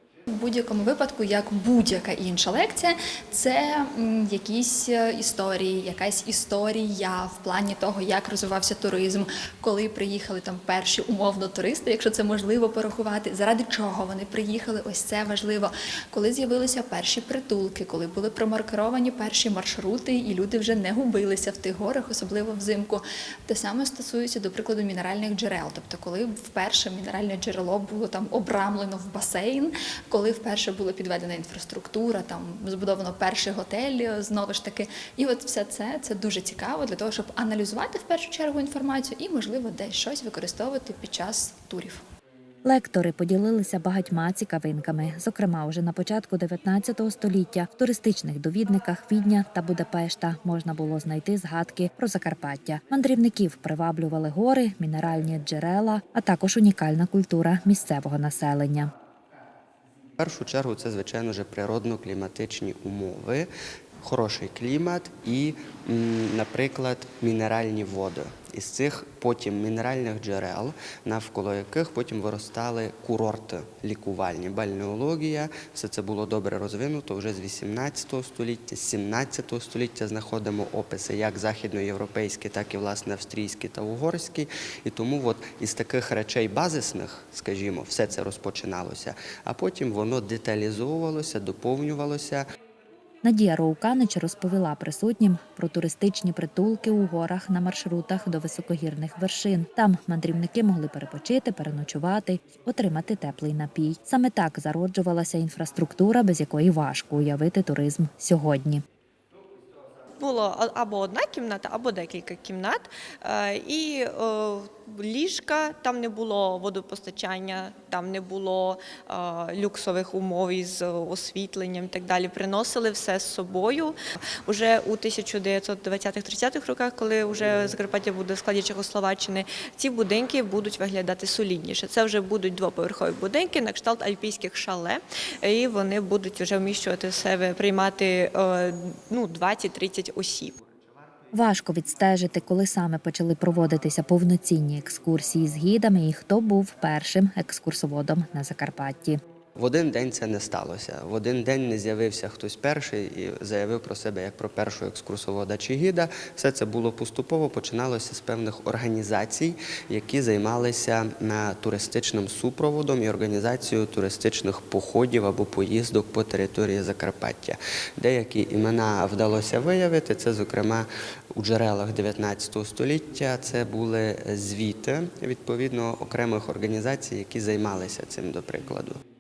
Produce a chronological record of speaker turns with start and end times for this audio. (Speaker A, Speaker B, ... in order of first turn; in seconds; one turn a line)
Speaker A: 0.3-42.0
Speaker B: 42.6-58.9
Speaker C: 60.2-63.5
Speaker C: 64.0-92.4
Speaker B: 93.2-108.8
Speaker D: 110.2-140.6
Speaker B: 141.3-149.2
Speaker C: 149.6-179.0